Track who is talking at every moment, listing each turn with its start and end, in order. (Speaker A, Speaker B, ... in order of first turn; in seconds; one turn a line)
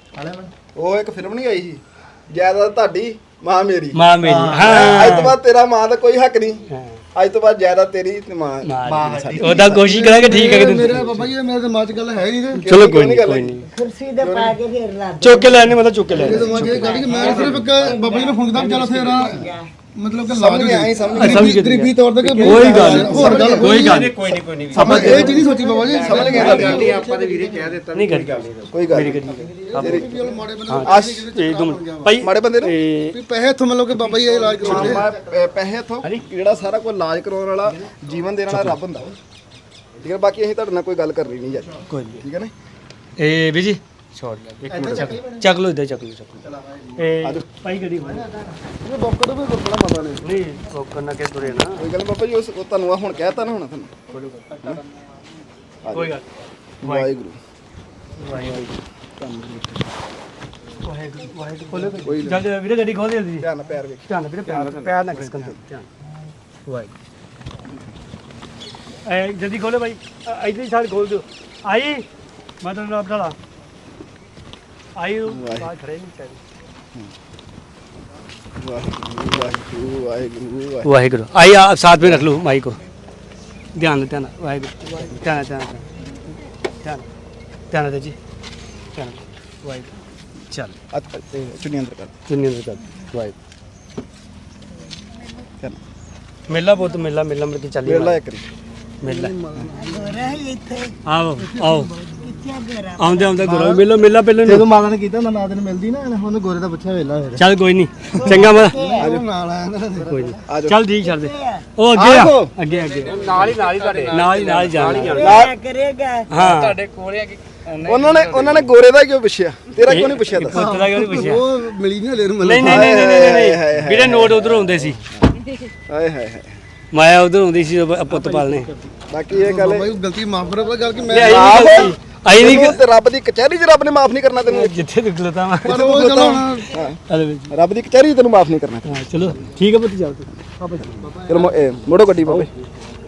Speaker A: 0.1-0.5
Speaker B: 0.8-4.0
Speaker C: 3.9-5.4
Speaker A: 4.2-4.8
Speaker B: 4.6-9.9
Speaker C: 6.7-7.0
Speaker C: 8.6-11.3
Speaker A: 8.8-9.7
Speaker D: 9.8-12.6
Speaker B: 12.6-13.6
Speaker C: 12.7-13.7
Speaker E: 13.7-19.7
Speaker B: 14.2-14.6
Speaker C: 15.2-17.6
Speaker D: 16.1-23.7
Speaker F: 17.1-17.7
Speaker F: 18.8-19.1
Speaker B: 20.3-21.6
Speaker C: 21.1-25.3
Speaker B: 22.2-23.5
Speaker A: 22.6-23.9
Speaker F: 23.3-29.3
Speaker B: 24.7-25.4
Speaker D: 24.8-26.9
Speaker A: 24.8-27.8
Speaker B: 26.0-26.9
Speaker C: 26.4-26.6
Speaker C: 27.9-30.1
Speaker B: 28.7-29.2
Speaker A: 29.3-30.4
Speaker B: 29.8-30.1
Speaker D: 29.8-32.2
Speaker C: 30.7-33.2
Speaker B: 30.8-31.3
Speaker B: 32.2-32.7
Speaker D: 33.1-35.1
Speaker A: 34.3-35.4
Speaker B: 34.6-39.2
Speaker C: 38.5-38.8
Speaker B: 40.0-42.5
Speaker C: 41.9-42.2
Speaker C: 43.2-46.4
Speaker A: 44.7-45.5
Speaker F: 44.7-45.1
Speaker A: 46.4-47.0
Speaker C: 47.0-48.3
Speaker A: 48.0-48.6
Speaker B: 48.8-50.2
Speaker C: 50.2-51.9
Speaker B: 51.5-54.0
Speaker F: 54.4-54.8
Speaker B: 55.8-56.2
Speaker C: 55.9-56.3
Speaker B: 56.8-57.4
Speaker C: 56.8-57.1
Speaker C: 58.3-58.6
Speaker B: 58.3-59.9
Speaker C: 60.8-63.5
Speaker A: 61.7-62.1
Speaker B: 61.9-62.5
Speaker B: 63.4-65.6
Speaker C: 64.1-65.9
Speaker C: 66.7-66.9
Speaker C: 69.1-72.0
Speaker C: 72.6-73.3
Speaker C: 75.0-76.4
Speaker B: 75.3-75.7
Speaker B: 78.6-80.9
Speaker C: 80.8-82.8
Speaker C: 83.8-85.8
Speaker C: 87.7-88.2
Speaker C: 89.0-89.9
Speaker C: 90.5-90.8
Speaker B: 90.9-92.1
Speaker C: 92.3-93.4
Speaker C: 96.5-98.2
Speaker B: 97.8-98.5
Speaker C: 99.0-99.6
Speaker D: 99.0-100.2
Speaker E: 99.8-100.9
Speaker C: 101.1-101.9
Speaker D: 101.4-102.2
Speaker E: 102.2-103.3
Speaker C: 103.0-104.6
Speaker A: 103.4-103.8
Speaker A: 104.4-107.5
Speaker C: 107.4-108.8
Speaker E: 108.1-109.1
Speaker D: 108.9-110.1
Speaker B: 109.0-109.3
Speaker A: 110.0-110.3
Speaker C: 110.1-115.3
Speaker B: 110.5-110.8
Speaker E: 111.0-111.6
Speaker B: 111.9-112.5
Speaker F: 112.7-115.4
Speaker E: 115.0-116.3
Speaker B: 115.2-115.5
Speaker C: 116.3-116.8
Speaker F: 116.3-118.8
Speaker B: 117.8-120.7
Speaker C: 119.8-121.5
Speaker D: 120.5-123.0
Speaker C: 122.4-125.0
Speaker B: 122.6-125.3
Speaker B: 125.9-126.6
Speaker C: 126.9-128.7
Speaker B: 129.1-129.9
Speaker D: 129.3-131.8
Speaker C: 131.1-132.8
Speaker B: 131.1-134.7
Speaker C: 134.5-135.8
Speaker D: 135.6-136.7
Speaker B: 135.7-137.0
Speaker C: 137.1-137.5
Speaker B: 137.5-139.4
Speaker C: 138.9-141.0
Speaker F: 141.3-141.6
Speaker B: 141.3-142.5